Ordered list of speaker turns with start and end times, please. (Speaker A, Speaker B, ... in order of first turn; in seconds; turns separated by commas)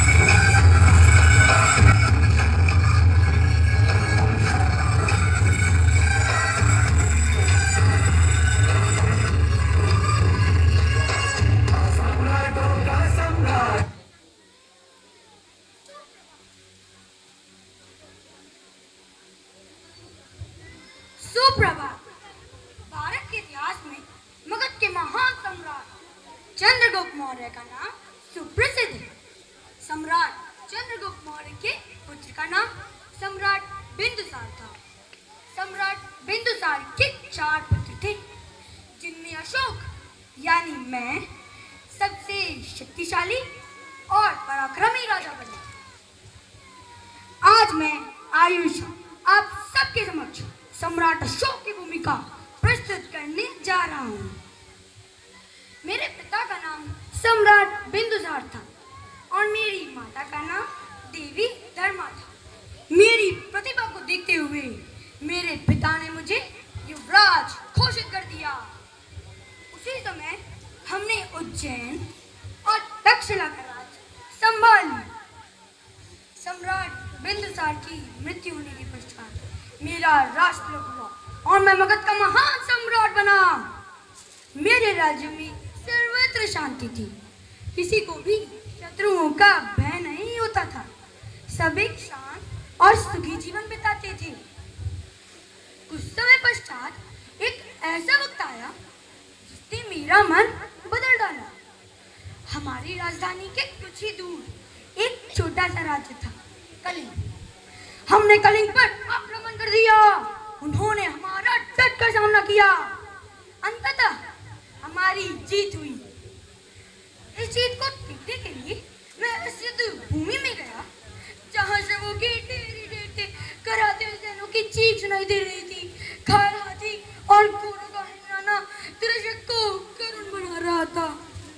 Speaker A: 21.2-22.1, Speaker A: 22.9-25.9, Speaker A: 26.6-29.1, Speaker A: 29.8-34.8, Speaker A: 35.5-38.2, Speaker A: 38.9-41.3, Speaker A: 41.9-43.5, Speaker A: 44.1-45.7, Speaker A: 47.4-54.4, Speaker A: 55.8-58.7, Speaker A: 59.3-62.3, Speaker A: 62.9-68.7, Speaker A: 69.7-72.1, Speaker A: 72.6-75.1, Speaker A: 76.3-83.7, Speaker A: 84.5-87.2, Speaker A: 87.7-90.9, Speaker A: 91.5-94.4, Speaker A: 95.9-98.7, Speaker A: 99.4-101.5, Speaker A: 102.5-107.2, Speaker A: 108.1-113.0, Speaker A: 113.6-114.2, Speaker A: 114.8-116.1, Speaker A: 117.3-120.9, Speaker A: 121.5-131.2